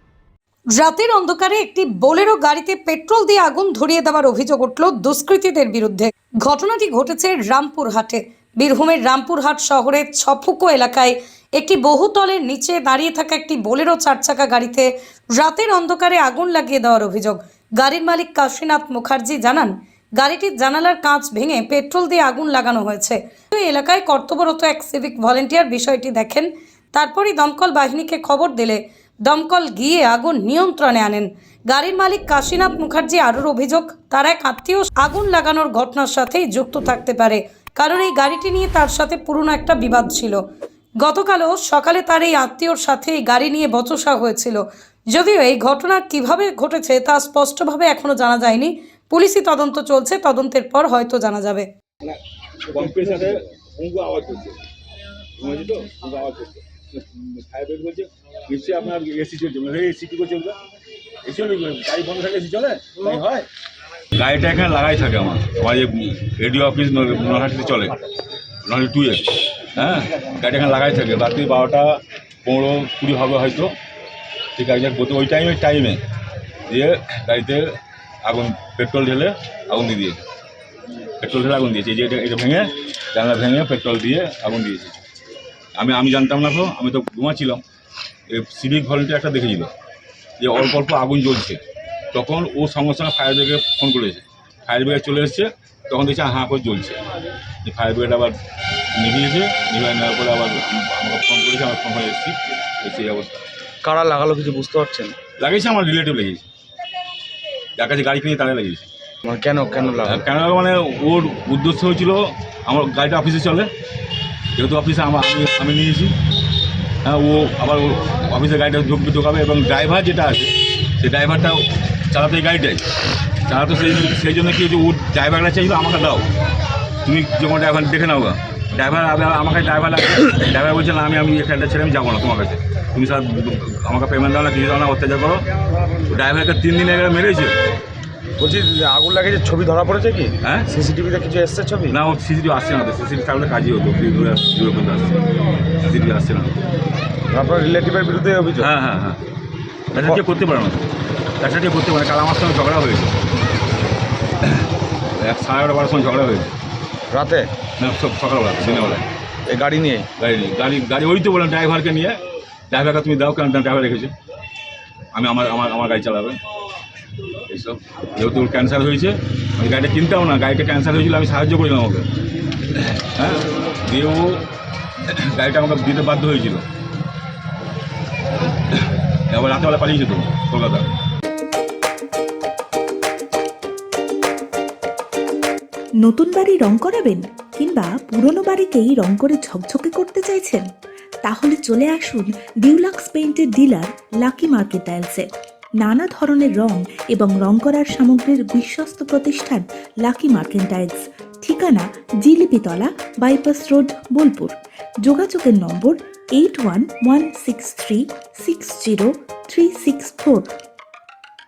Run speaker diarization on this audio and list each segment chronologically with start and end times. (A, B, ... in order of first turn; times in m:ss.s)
0:00.7-0:40.4 A
0:41.0-0:51.7 A
0:52.0-0:54.6 B
0:55.4-1:00.6 B
1:01.2-1:03.5 B
1:04.2-1:08.0 B
1:08.6-1:13.7 B
1:14.6-1:16.0 B
1:16.7-1:20.2 B
1:21.2-1:25.0 B
1:25.8-1:27.6 B
1:28.3-1:29.7 B
1:30.4-1:31.6 B
1:32.1-1:37.0 B
1:37.6-1:38.4 B
1:39.0-1:43.4 B
1:43.8-1:45.2 C
1:45.4-1:46.4 B
1:47.8-1:48.9 B
1:49.2-1:50.2 C
1:50.0-1:53.7 B
1:54.6-1:56.2 B
1:57.0-2:02.9 B
2:03.5-2:06.2 B
2:07.0-2:15.5 B
2:16.1-2:17.6 B
2:18.4-2:22.0 C
2:20.4-2:20.7 B
2:21.9-2:25.2 B
2:25.8-2:26.5 B
2:27.3-2:28.7 C
2:28.6-2:29.2 B
2:29.9-2:30.8 B
2:30.0-2:30.2 C
2:31.4-2:33.2 B
2:34.4-2:36.5 B
2:37.1-2:37.5 C
2:37.8-2:39.1 B
2:39.5-2:40.1 C
2:40.2-2:42.2 B
2:42.7-2:44.1 B
2:45.1-2:46.4 B
2:47.5-2:52.0 B
2:52.8-2:54.4 B
2:55.1-2:56.6 B
2:58.7-3:00.9 B
3:06.0-3:10.7 D
3:11.2-3:15.3 D
3:15.8-3:24.5 D
3:25.0-3:30.5 D